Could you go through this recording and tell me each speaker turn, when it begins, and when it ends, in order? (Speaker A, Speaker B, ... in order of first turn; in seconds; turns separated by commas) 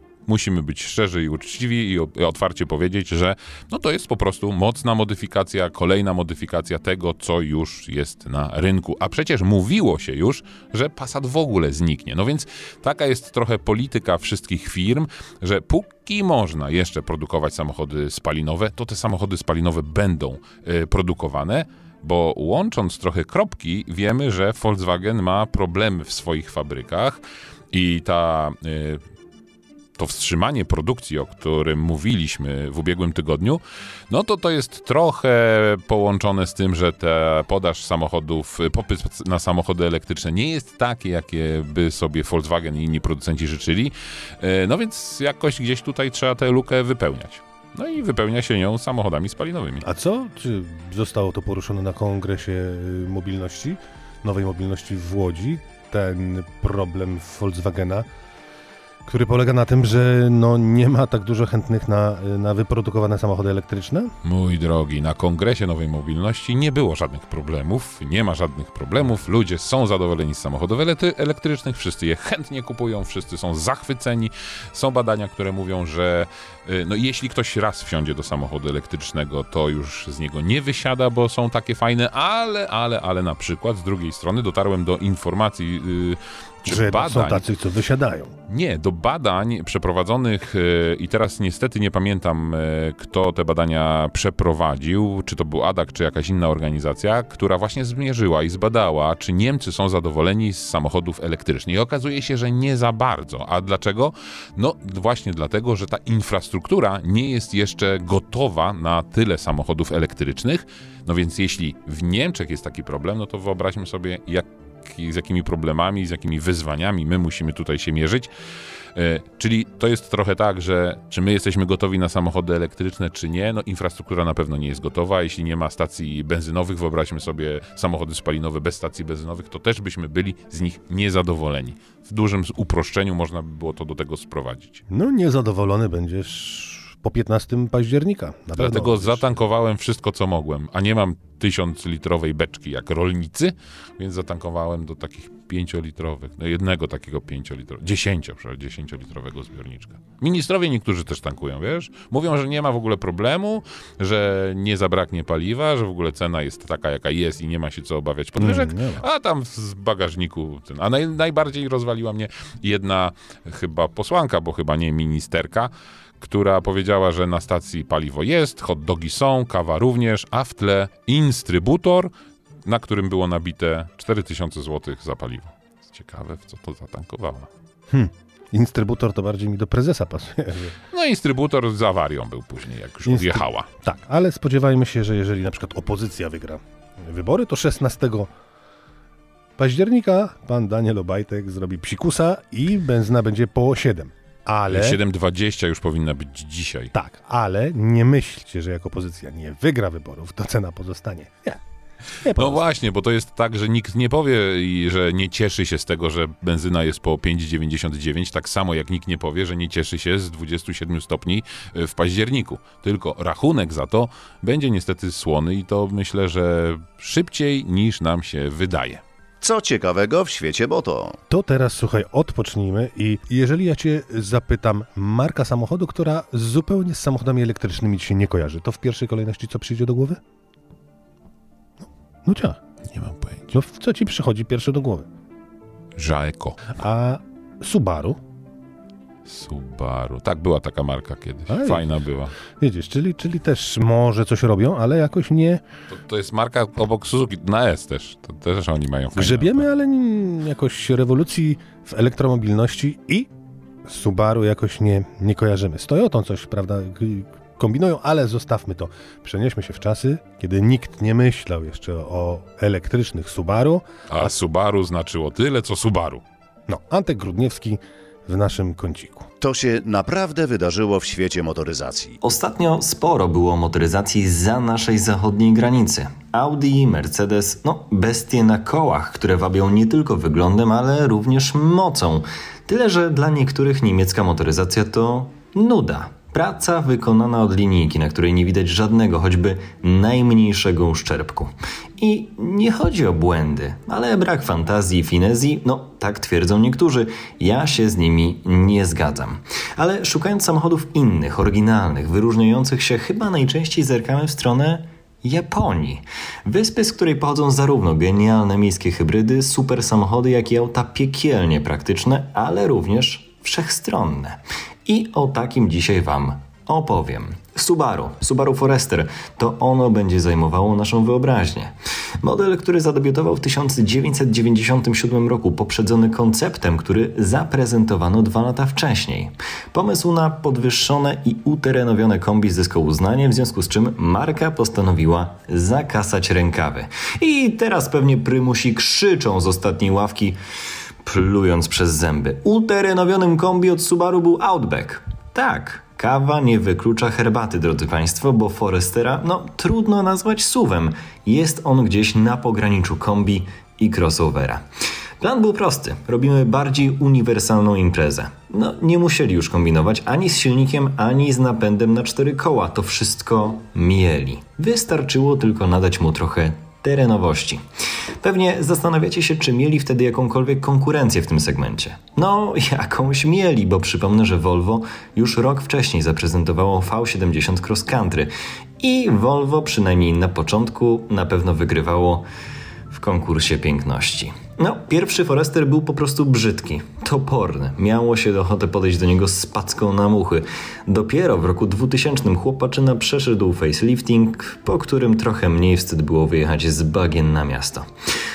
Speaker A: 0.3-27.2, Speaker A: 27.7-29.0, Speaker A: 30.0-49.9, Speaker B: 49.8-58.1, Speaker B: 59.1-64.2, Speaker A: 64.2-87.5, Speaker B: 86.7-88.3, Speaker A: 88.5-118.3, Speaker A: 119.0-134.8, Speaker B: 134.9-139.4, Speaker A: 138.6-172.1, Speaker B: 158.4-159.1, Speaker A: 172.7-177.5, Speaker B: 177.9-180.8, Speaker A: 180.9-183.7, Speaker B: 183.1-188.3, Speaker B: 189.6-195.0, Speaker A: 194.7-196.9, Speaker B: 196.9-201.6, Speaker B: 202.2-202.6, Speaker A: 202.3-219.0, Speaker C: 219.4-221.2, Speaker B: 221.3-230.2, Speaker B: 232.2-232.6, Speaker A: 232.9-233.4, Speaker B: 233.5-235.1, Speaker A: 236.0-236.6, Speaker B: 236.8-238.2, Speaker A: 239.3-242.4, Speaker B: 241.5-241.9, Speaker B: 242.4-245.6, Speaker A: 245.9-249.7, Speaker B: 249.2-253.3, Speaker B: 253.8-264.3, Speaker A: 264.1-266.2, Speaker B: 266.7-269.3, Speaker C: 269.4-272.2, Speaker D: 272.2-340.4, Speaker D: 341.1-354.6, Speaker D: 355.2-367.6, Speaker D: 368.2-382.2, Speaker D: 382.9-397.9